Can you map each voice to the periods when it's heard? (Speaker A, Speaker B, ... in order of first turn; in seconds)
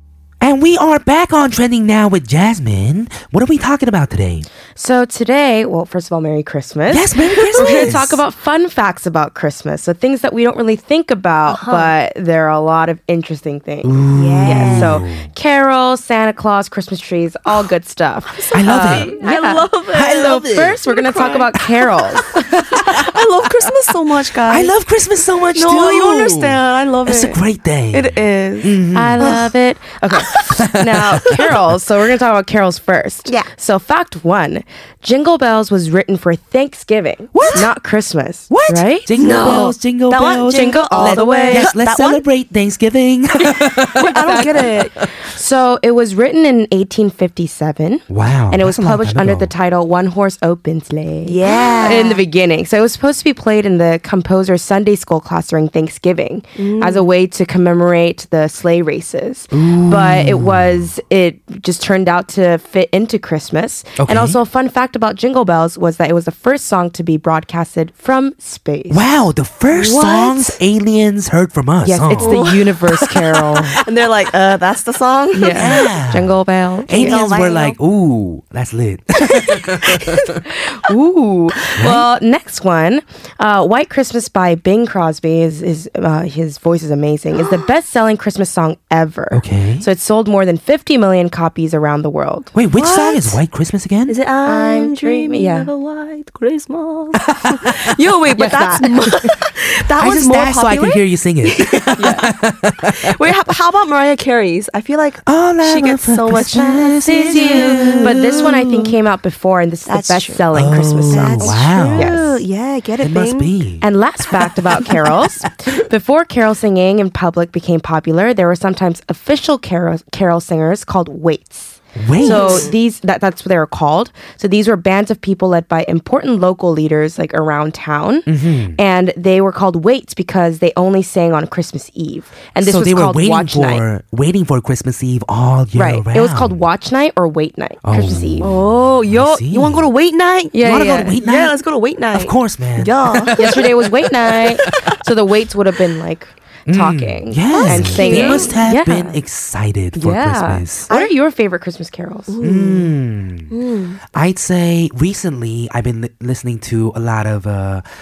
Speaker A: 0.4-4.5, 6.9-8.2, 13.8-15.3, 18.5-19.2, 19.9-21.4, 24.5-29.4, 30.5-31.4, 37.3-37.7, 38.5-44.8, 48.1-49.5, 51.5-51.9, 59.5-60.9, 64.0-64.4, 68.9-72.5, 75.5-80.4, 81.8-82.0, 89.3-89.9, 92.5-94.2, 100.0-103.1, 105.2-108.8, 110.5-112.2, 113.0-113.9, 122.0-122.7, 128.3-128.8, 132.6-136.6, 137.8-139.9, 140.6-141.6, 142.1-144.8, 146.7-150.9, 152.4-153.5, 154.1-157.8
Speaker B: 4.8-22.9, 28.9-39.1, 40.5-41.7, 43.5-69.0, 71.8-73.8, 75.3-77.2, 80.7-92.5, 94.5-95.7, 98.4-98.9, 102.0-102.2, 106.4-112.4, 113.8-133.8, 135.8-138.5, 140.5-141.2, 143.4-149.2, 149.9-152.3
Speaker C: 7.5-8.0, 11.5-11.9, 14.1-15.0, 18.4-21.6, 22.7-24.7, 25.5-27.4, 27.9-29.4, 39.2-42.2, 44.0-44.9, 51.2-52.2, 56.5-57.1, 69.7-70.5, 72.2-73.1, 73.8-75.9, 76.9-77.8, 92.7-93.4, 94.1-102.2, 102.9-108.5, 109.9-110.5, 111.1-113.5, 122.2-122.8, 138.4-143.6, 147.5-148.6, 152.3-152.9, 153.5-154.0